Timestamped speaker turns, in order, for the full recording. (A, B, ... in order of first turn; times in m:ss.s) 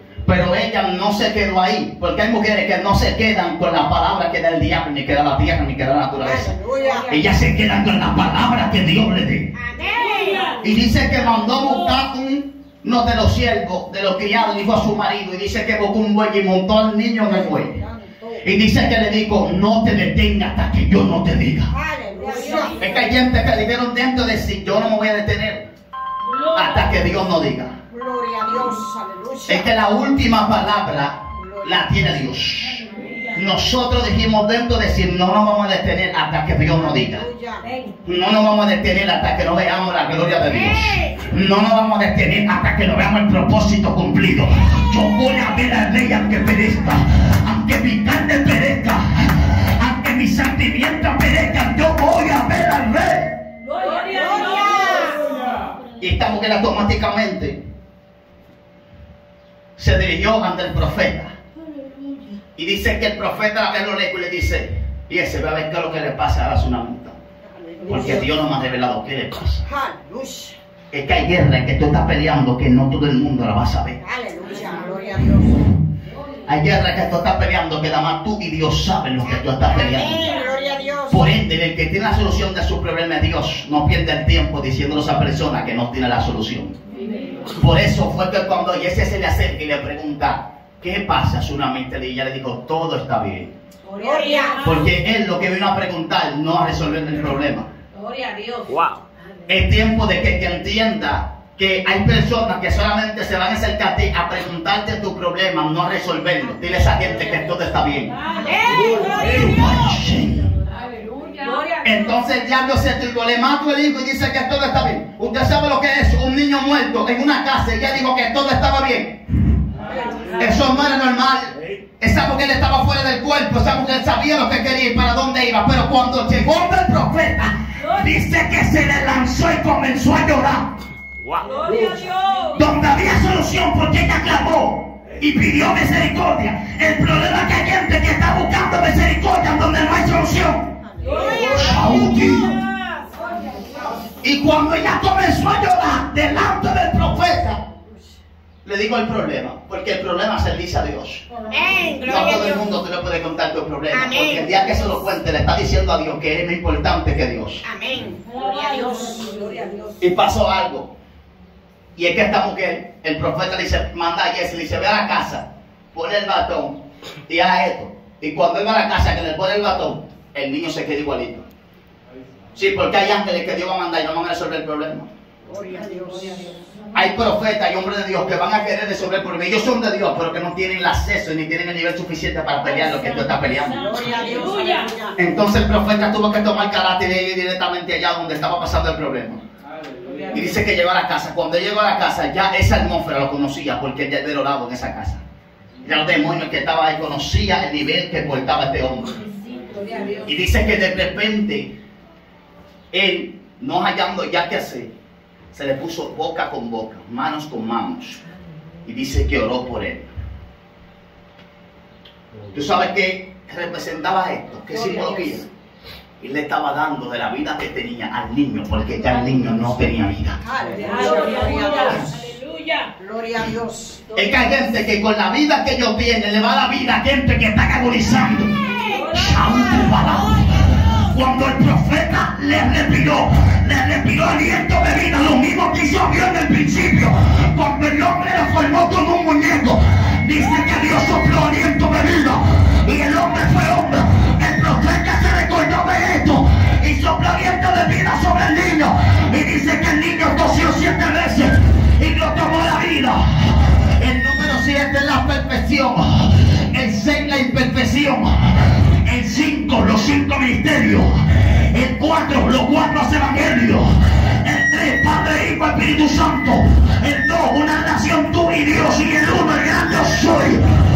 0:00.2-0:06.5 A
0:06.2-0:07.1 B
0:07.1-0:09.5 A
0:09.5-0:10.6 B
0:10.6-0:17.8 A
0:17.2-0:18.4 B
0:18.4-0:21.7 A
0:21.7-0:22.8 B
0:22.4-0:22.9 C
0:22.8-0:25.7 A
0:26.3-0:26.9 C
0:26.6-0:27.7 A
0:27.9-0:29.7 B
0:29.5-0:32.8 A
0:31.3-0:31.9 B
0:33.4-0:37.2 A
0:36.8-0:37.7 B
0:38.0-0:49.0 A
0:40.5-0:41.3 B
0:49.8-0:53.3 A
0:53.7-0:55.2 C
0:54.0-0:55.2 B
0:56.0-0:57.6 A
0:59.8-1:01.3 A
1:02.6-1:07.2 A
1:07.4-1:08.3 B
1:07.9-1:09.6 A
1:09.6-1:10.6 B
1:10.9-1:14.0 A
1:14.0-1:15.6 B
1:16.5-1:20.2 A
1:19.6-1:21.3 B
1:21.1-1:26.7 A
1:27.6-1:33.5 A
1:33.9-1:34.9 C
1:34.0-1:34.6 B
1:34.6-1:37.7 A
1:37.9-1:38.8 C
1:39.5-1:48.1 A
1:48.4-1:49.3 B
1:48.4-1:49.2 C
1:49.2-1:50.5 A
1:51.8-1:59.2 A
2:00.4-2:10.7 A
2:11.4-2:12.5 C
2:12.6-2:20.7 A
2:20.9-2:21.8 B
2:21.4-2:22.6 A
2:24.2-2:27.6 A
2:28.6-2:31.2 A
2:31.5-2:32.6 B
2:32.1-2:37.6 A
2:33.9-2:34.5 B
2:37.6-2:39.7 B
2:38.4-2:39.8 C
2:40.0-2:40.9 A
2:42.0-2:46.8 A
2:47.3-2:51.4 A
2:52.6-2:55.1 A
2:55.5-2:56.5 B
2:56.9-3:03.8 A
3:03.7-3:05.2 B
3:05.2-3:09.4 A
3:10.3-3:15.2 A
3:15.8-3:19.2 A
3:19.7-3:20.3 C
3:20.3-3:21.7 A
3:22.9-3:24.9 A
3:25.5-3:28.2 A
3:28.9-3:30.1 A
3:32.5-3:35.4 A
3:34.7-3:35.4 B
3:36.2-3:40.4 A
3:40.4-3:42.4 B
3:40.8-3:42.9 C
3:43.0-3:44.1 B
3:44.2-3:48.5 A
3:48.7-3:49.0 B
3:48.9-3:49.3 C
3:49.1-4:13.2 A
4:14.0-4:18.5 A
4:19.0-4:21.1 A
4:21.7-4:23.9 A
4:24.4-4:30.6 A